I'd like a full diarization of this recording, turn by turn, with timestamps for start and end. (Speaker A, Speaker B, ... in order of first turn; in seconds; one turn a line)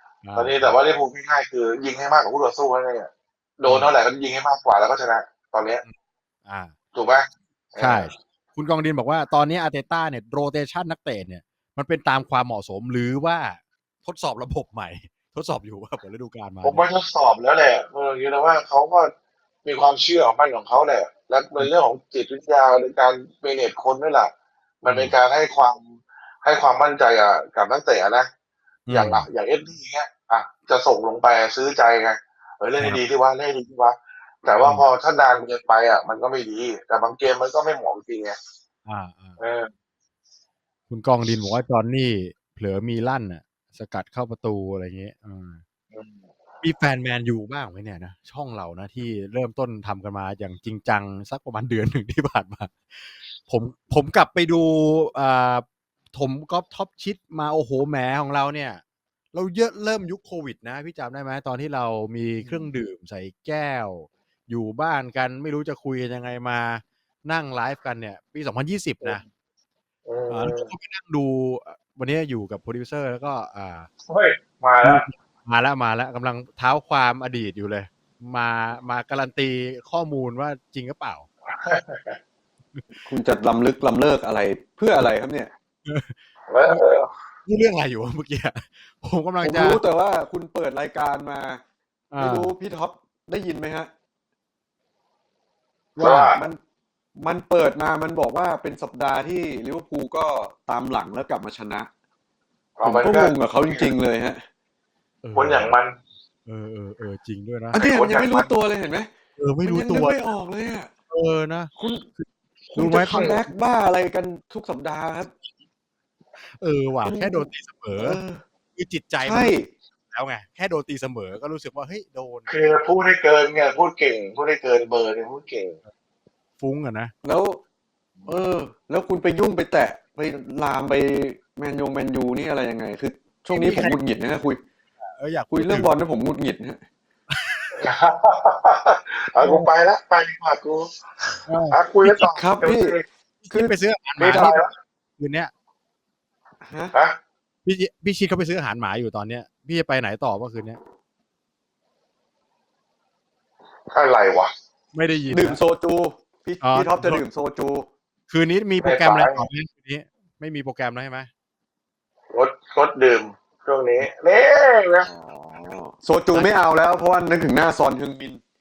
Speaker A: 0.2-0.7
Speaker B: 0.4-5.8
Speaker A: 3.7-3.9
Speaker A: 5.8-6.7
Speaker B: 6.9-8.1
Speaker A: 7.8-16.8
Speaker B: 16.6-19.1
Speaker B: 19.6-24.3
Speaker B: 24.8-25.8
Speaker A: 24.9-25.2
Speaker B: 26.4-28.3
Speaker A: 28.9-29.3
Speaker B: 28.9-38.4
Speaker A: 38.9-39.4
Speaker B: 39.4-39.7
Speaker A: 40.9-45.6
Speaker B: 45.9-46.3
Speaker A: 46.6-58.8
Speaker A: 59.3-69.2
Speaker B: 70.1-70.7
Speaker A: 70.3-73.9
Speaker B: 74.1-75.1
Speaker A: 74.8-81.3
Speaker B: 81.5-82.2
Speaker A: 82.8-83.0
Speaker C: 83.1-85.5
Speaker A: 85.9-86.8
Speaker B: 86.5-87.1
Speaker A: 87.5-89.8
Speaker C: 89.4-91.6
Speaker A: 92.1-92.5
Speaker C: 92.2-93.9
Speaker A: 96.0-96.4
Speaker B: 96.0-96.5
Speaker C: 96.3-96.6
Speaker C: 97.2-101.9
Speaker B: 102.8-103.9
Speaker C: 102.8-104.4
Speaker A: 105.2-105.7
Speaker B: 105.3-106.0
Speaker A: 106.5-107.8
Speaker C: 107.7-109.1
Speaker B: 107.8-108.5
Speaker A: 109.4-110.3
Speaker C: 109.7-110.9
Speaker A: 111.1-113.2
Speaker C: 111.8-112.1
Speaker C: 112.8-115.3
Speaker B: 113.1-113.4
Speaker A: 116.4-118.2
Speaker C: 117.0-118.4
Speaker A: 118.8-119.5
Speaker C: 119.2-119.7
Speaker A: 120.1-122.5
Speaker B: 122.5-125.8
Speaker A: 126.6-127.1
Speaker C: 127.2-127.6
Speaker C: 128.3-134.6
Speaker A: 133.5-134.0
Speaker A: 135.2-135.9
Speaker C: 135.5-136.8
Speaker A: 137.4-137.8
Speaker B: 137.8-140.9
Speaker A: 139.4-139.7
Speaker A: 141.5-142.2
Speaker B: 141.7-143.0
Speaker C: 142.2-143.8
Speaker A: 143.4-144.6
Speaker B: 144.2-144.7
Speaker A: 145.2-145.5
Speaker C: 146.6-146.9
Speaker A: 147.7-150.8
Speaker B: 153.9-154.5
Speaker A: 154.9-155.6
Speaker C: 155.3-157.9
Speaker A: 156.6-157.2
Speaker A: 158.3-161.3
Speaker B: 158.8-159.4
Speaker B: 162.3-165.1
Speaker C: 165.1-168.4